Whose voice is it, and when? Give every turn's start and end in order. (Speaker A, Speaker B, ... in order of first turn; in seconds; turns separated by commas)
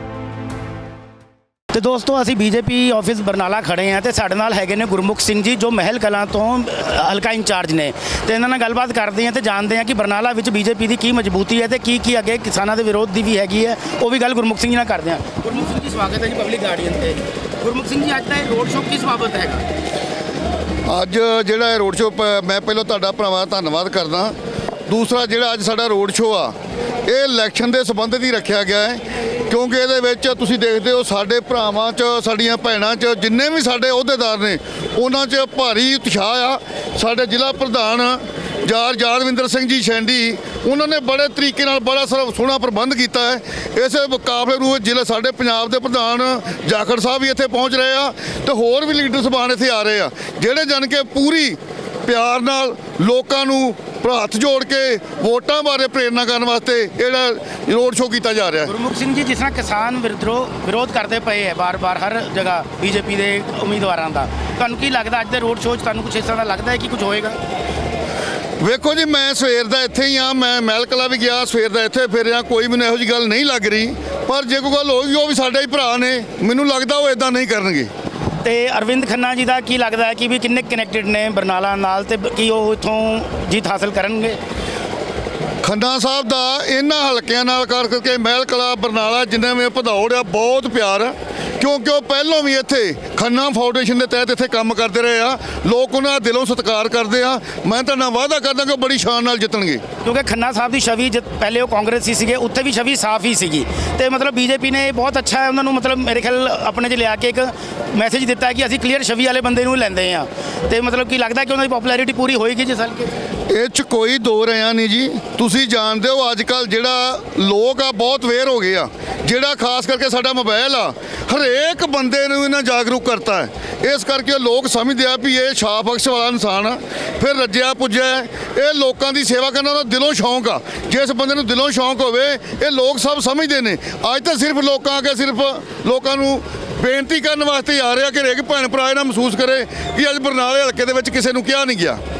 Speaker A: 1.7-19.6, Speaker B: 20.9-24.3, Speaker B: 24.9-58.7, Speaker A: 58.6-67.4, Speaker B: 68.6-77.9, Speaker A: 78.4-84.4, Speaker B: 85.6-99.8, Speaker A: 100.0-113.1, Speaker B: 113.5-142.0